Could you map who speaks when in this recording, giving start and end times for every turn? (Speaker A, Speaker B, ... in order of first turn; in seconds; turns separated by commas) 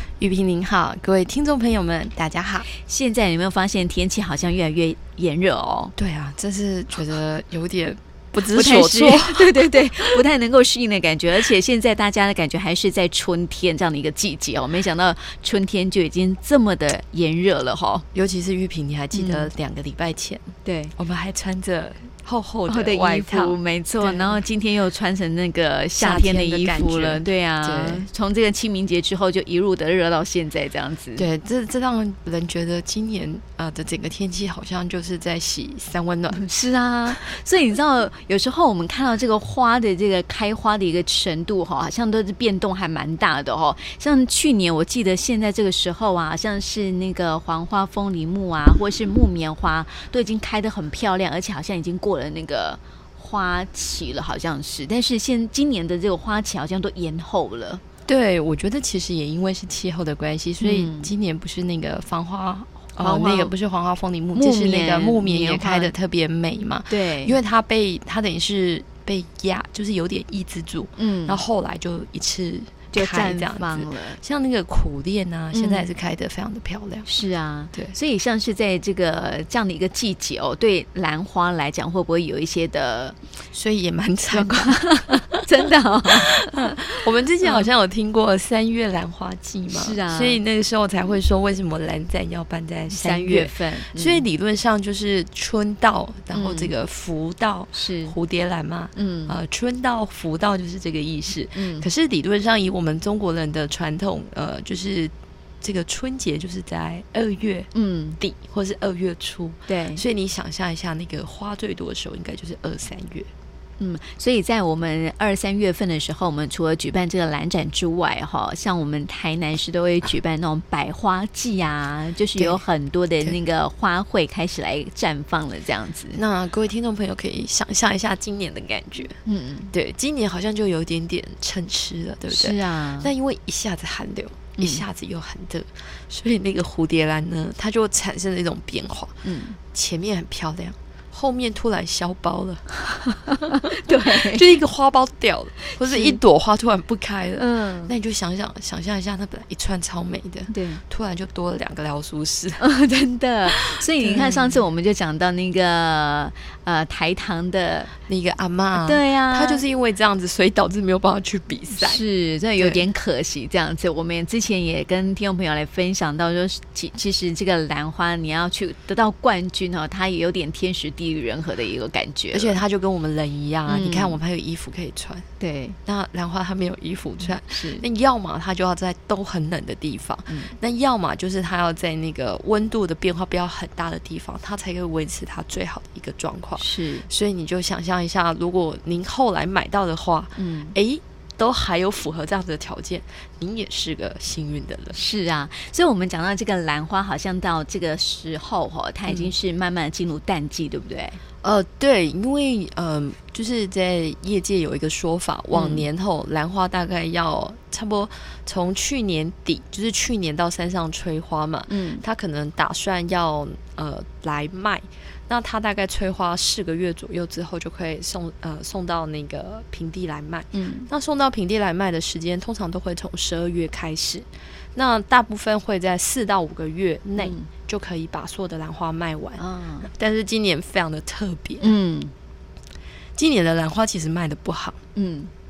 Speaker A: 0.2-2.7, Speaker B: 2.8-5.9, Speaker A: 6.0-10.2, Speaker B: 8.4-18.0, Speaker A: 18.1-24.4, Speaker B: 19.1-19.5, Speaker B: 20.6-20.9, Speaker B: 22.7-31.2, Speaker A: 26.0-28.1, Speaker A: 31.2-36.5, Speaker B: 36.3-57.8, Speaker A: 58.0-77.1, Speaker B: 60.6-61.1, Speaker B: 63.0-63.5, Speaker B: 64.3-65.9, Speaker B: 66.9-67.4, Speaker B: 71.0-71.4, Speaker B: 72.9-74.2, Speaker B: 75.5-75.9, Speaker B: 77.1-83.2, Speaker A: 83.5-85.3, Speaker B: 84.3-86.4, Speaker A: 86.3-107.7, Speaker B: 87.4-87.7, Speaker B: 89.7-90.4, Speaker B: 92.9-94.2, Speaker B: 96.3-96.7, Speaker B: 97.7-98.1, Speaker B: 99.0-99.3, Speaker B: 101.5-101.9, Speaker B: 107.7-108.2, Speaker A: 108.2-113.3, Speaker B: 109.7-110.0, Speaker B: 113.8-126.2, Speaker A: 126.1-129.2, Speaker B: 129.2-129.7, Speaker A: 129.7-139.2, Speaker B: 132.3-133.1, Speaker B: 134.6-134.8, Speaker B: 139.2-139.6, Speaker A: 139.7-152.6, Speaker B: 143.3-144.4, Speaker B: 145.7-146.2, Speaker B: 147.4-147.9, Speaker B: 150.5-150.8, Speaker B: 152.6-157.9, Speaker A: 153.5-154.6, Speaker A: 158.1-162.0, Speaker B: 158.8-159.6, Speaker B: 161.7-172.6, Speaker A: 162.6-162.9, Speaker A: 172.3-175.3, Speaker B: 173.7-174.2, Speaker B: 175.4-175.8, Speaker A: 175.8-195.0, Speaker B: 177.5-177.8, Speaker B: 186.6-187.1, Speaker B: 190.4-190.8, Speaker B: 194.9-201.2, Speaker A: 199.1-199.3, Speaker A: 201.4-231.7, Speaker B: 205.5-205.9, Speaker B: 211.7-212.0, Speaker B: 220.5-220.9, Speaker B: 227.2-227.5, Speaker B: 229.4-229.9, Speaker B: 231.6-232.1, Speaker A: 233.2-234.8, Speaker B: 235.0-235.3